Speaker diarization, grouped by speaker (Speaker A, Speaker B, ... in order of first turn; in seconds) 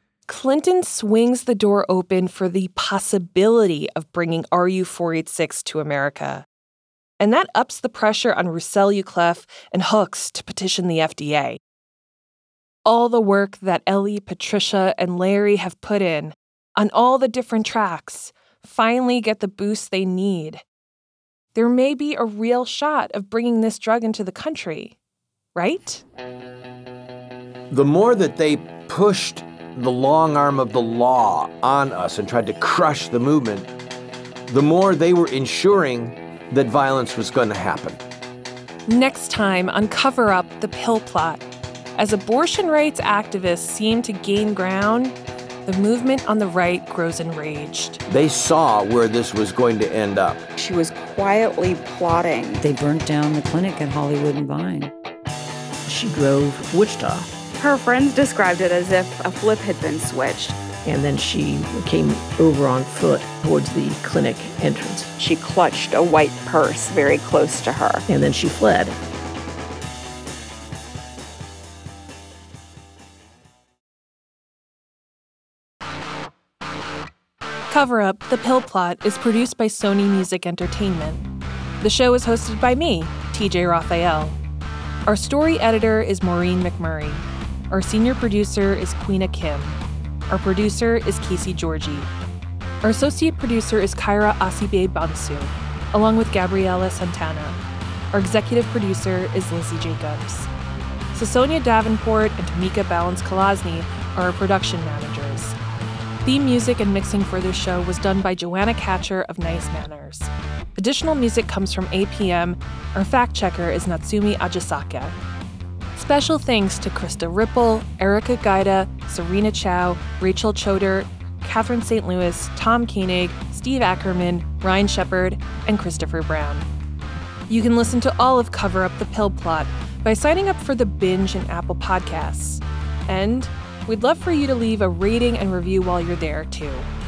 Speaker A: 0.3-6.5, 7.2-11.6, 12.8-20.6, 21.5-24.9, 25.5-26.0, 38.9-41.4, 42.0-45.1, 45.6-48.0, 77.7-81.3, 81.8-84.4, 85.0-89.7, 90.3-92.1, 92.8-97.6, 98.1-100.5, 101.1-105.5, 106.2-115.2, 116.0-126.7, 127.5-136.9
Speaker B: 27.7-33.7, 34.5-38.0, 48.1-50.4
Speaker C: 50.6-52.6, 57.6-60.6, 65.2-68.0
Speaker D: 52.6-54.9
Speaker E: 55.9-57.3, 60.8-65.1, 68.1-69.0